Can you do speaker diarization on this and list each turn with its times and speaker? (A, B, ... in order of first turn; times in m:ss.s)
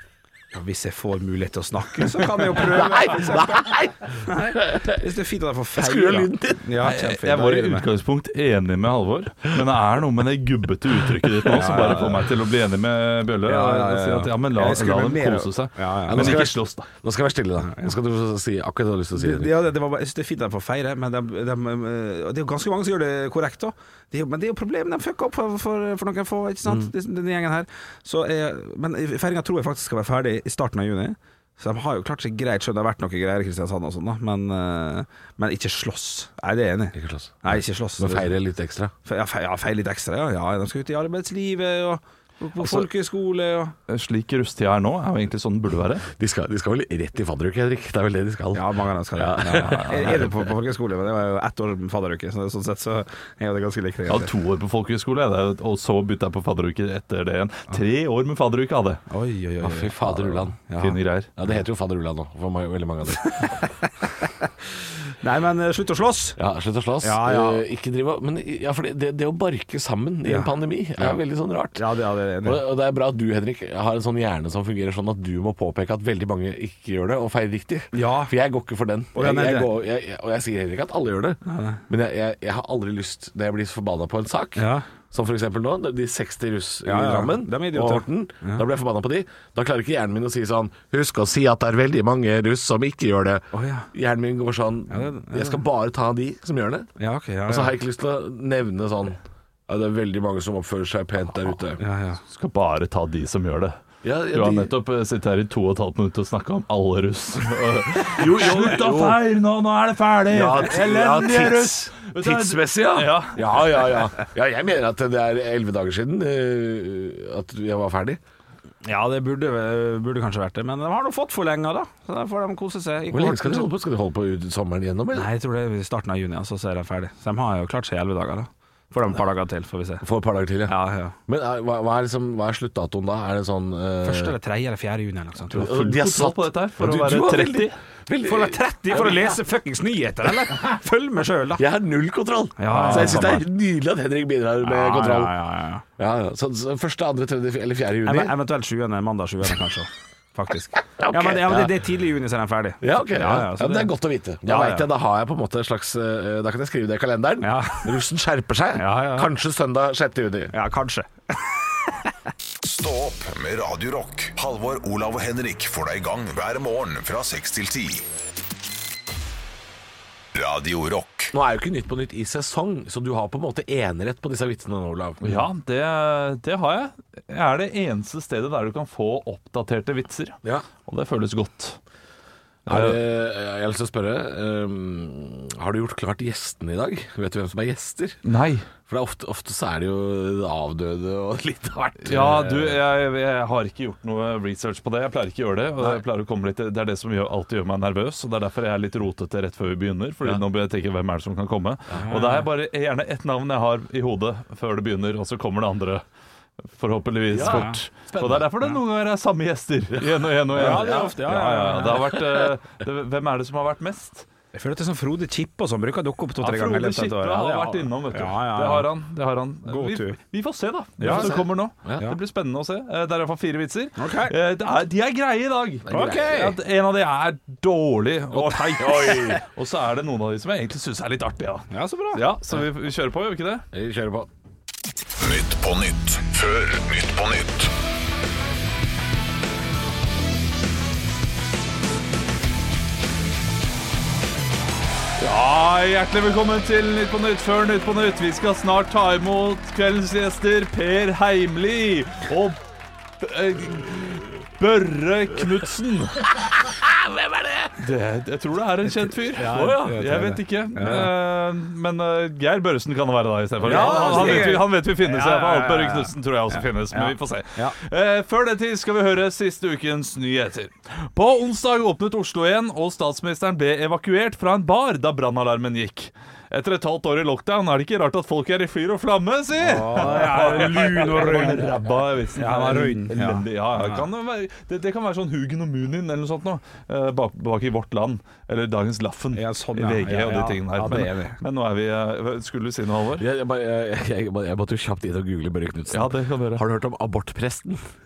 0:00.5-0:03.7 A
0:02.6-0:05.0 B
0:04.2-0:07.9 A
0:05.8-0:06.7 B
0:06.8-0:16.9 C
0:11.5-0:12.2 A
0:13.5-0:16.4 A
0:16.1-0:19.5 B
0:19.2-0:38.4 A
0:37.0-0:38.9 B
0:39.1-0:43.8 A
0:43.9-0:46.1 C
0:46.2-0:50.3 B
0:48.5-0:54.3 A
0:49.6-0:50.2 C
0:54.1-0:59.0 C
0:59.1-1:01.0 A
0:59.6-1:00.6 B
1:00.8-1:01.3 C
1:01.4-1:03.6 B
1:03.3-1:04.3 A
1:05.2-1:06.4 A
1:06.4-1:11.8 B
1:07.0-1:07.6 A
1:10.2-1:11.2 A
1:11.8-1:12.6 A
1:12.4-1:36.9 B
1:17.9-1:18.3 A
1:19.1-1:19.7 A
1:21.4-1:21.8 A
1:24.6-1:24.9 A
1:26.8-1:28.6 A
1:33.5-1:33.9 A
1:34.9-1:35.6 A
1:37.0-1:37.7 A
1:37.5-1:41.8 B
1:41.8-1:42.2 A
1:42.3-1:43.8 C
1:44.0-1:44.7 B
1:44.3-1:54.0 C
1:48.1-1:49.2 B
1:50.3-1:58.2 B
1:58.8-2:03.7 A
2:03.1-2:05.3 B
2:05.1-2:10.0 A
2:10.0-2:10.8 B
2:10.7-2:11.2 A
2:11.3-2:14.4 B
2:14.0-2:15.7 A
2:15.5-2:19.4 B
2:15.5-2:17.8 C
2:18.2-2:21.6 A
2:21.6-2:25.4 B
2:22.6-2:23.4 A
2:22.7-2:23.4 C
2:24.6-2:25.8 A
2:26.0-2:28.3 B
2:28.0-2:33.9 A
2:31.0-2:31.8 B
2:32.8-2:40.5 B
2:34.4-2:34.9 A
2:37.4-2:38.0 A
2:38.8-2:39.3 A
2:40.5-2:42.1 A
2:42.6-2:48.1 D
2:50.3-2:51.3 D
2:51.3-2:55.4 B
2:55.2-3:01.8 C
3:02.7-3:08.2 B
3:02.7-3:03.0 C
3:08.2-3:08.7 C
3:08.9-3:12.8 B
3:12.0-3:26.0 C
3:22.0-3:22.5 A
3:26.7-3:34.3 C
3:27.3-3:28.5 B
3:27.4-3:27.8 A
3:29.9-3:31.1 B
3:30.6-3:32.2 A
3:34.5-3:38.9 A
3:36.4-3:53.6 C
3:39.7-3:40.2 A
3:41.0-3:41.4 A
3:41.0-3:42.0 B
3:44.0-3:44.3 A
3:45.9-3:46.4 B
3:45.9-3:46.6 A
3:48.4-3:49.4 A
3:48.8-3:49.4 B
3:51.7-3:52.2 A
3:53.7-3:54.3 B
3:55.2-3:57.7 D
4:05.2-4:12.6 C
4:13.2-4:16.5 C
4:16.7-4:17.7 B
4:17.8-4:53.3 C
4:19.3-4:21.1 A
4:23.6-4:24.6 B
4:23.6-4:27.8 A
4:39.6-4:41.7 A
4:42.4-4:44.0 A
4:49.3-4:51.4 A
4:53.2-4:57.8 B
4:55.9-4:56.6 C